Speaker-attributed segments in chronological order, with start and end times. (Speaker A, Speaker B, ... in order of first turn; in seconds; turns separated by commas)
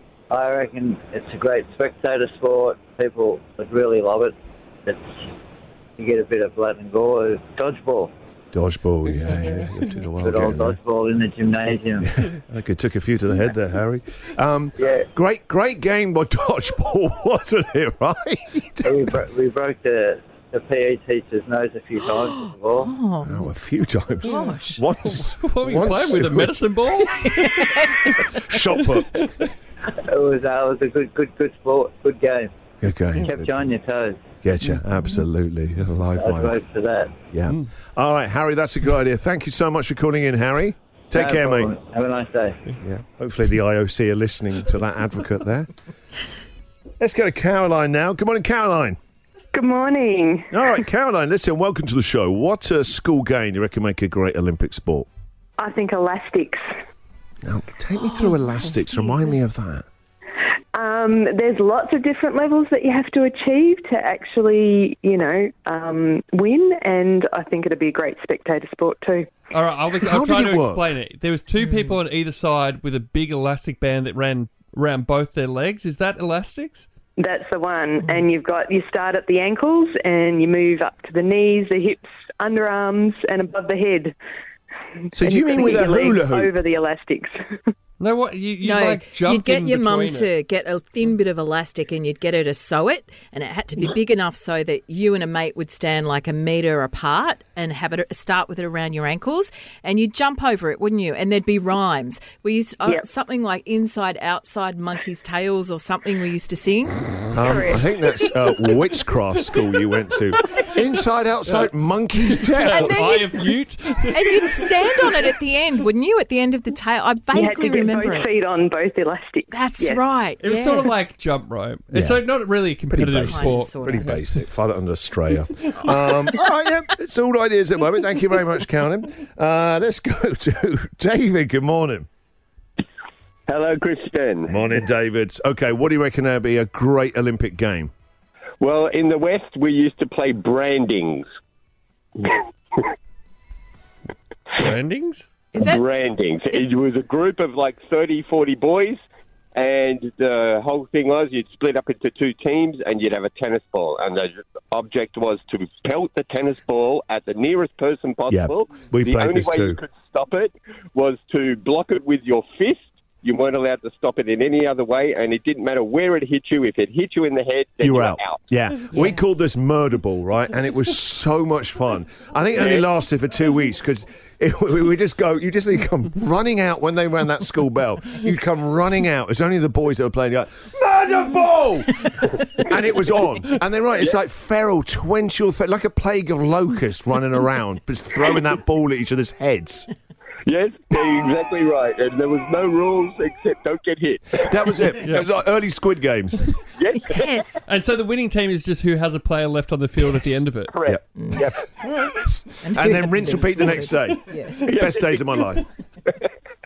Speaker A: 0.3-4.3, Speaker A: 6.0-8.1, Speaker B: 8.5-10.8, Speaker A: 10.2-12.1, Speaker B: 12.0-19.1, Speaker A: 14.8-15.0, Speaker A: 18.8-22.9, Speaker C: 22.3-23.5, Speaker B: 23.2-27.5, Speaker C: 24.2-24.8, Speaker D: 25.0-28.3, Speaker C: 27.3-28.0, Speaker B: 28.1-29.2, Speaker A: 29.9-32.5, Speaker B: 32.8-33.7, Speaker A: 33.2-34.2, Speaker B: 34.4-36.5, Speaker A: 36.1-37.1, Speaker B: 37.3-41.7, Speaker A: 41.1-42.7, Speaker B: 42.8-45.7, Speaker B: 47.0-49.0, Speaker E: 49.5-50.5, Speaker B: 50.5-55.1, Speaker E: 55.6-56.6, Speaker B: 57.4-59.8, Speaker C: 58.0-59.4, Speaker E: 60.7-69.3, Speaker D: 69.5-76.9, Speaker B: 70.0-70.8, Speaker C: 71.6-72.0, Speaker E: 77.2-84.2, Speaker B: 85.1-86.5, Speaker E: 85.2-87.3, Speaker D: 88.0-90.3, Speaker C: 88.6-107.5, Speaker B: 107.3-113.2, Speaker D: 112.4-114.6, Speaker C: 112.5-113.3, Speaker C: 114.1-118.3, Speaker E: 117.3-120.0, Speaker C: 119.5-121.1, Speaker D: 120.4-124.2, Speaker B: 121.9-122.2, Speaker B: 122.9-132.1, Speaker C: 123.2-124.2, Speaker F: 133.5-134.5, Speaker B: 134.5-137.9, Speaker F: 138.6-141.3, Speaker F: 142.2-142.9, Speaker D: 144.6-145.3, Speaker C: 145.5-145.8, Speaker F: 145.6-149.0, Speaker F: 149.5-168.5, Speaker B: 158.3-159.8, Speaker B: 167.9-182.1, Speaker C: 168.9-169.2, Speaker F: 172.6-172.8, Speaker B: 182.6-189.9, Speaker F: 190.4-194.8, Speaker B: 194.4-196.5, Speaker D: 195.0-195.3, Speaker F: 196.8-197.3, Speaker C: 196.9-197.6, Speaker D: 197.7-200.8, Speaker F: 200.7-201.6, Speaker C: 201.2-201.4, Speaker B: 201.9-205.6, Speaker C: 202.6-204.6, Speaker F: 204.6-205.6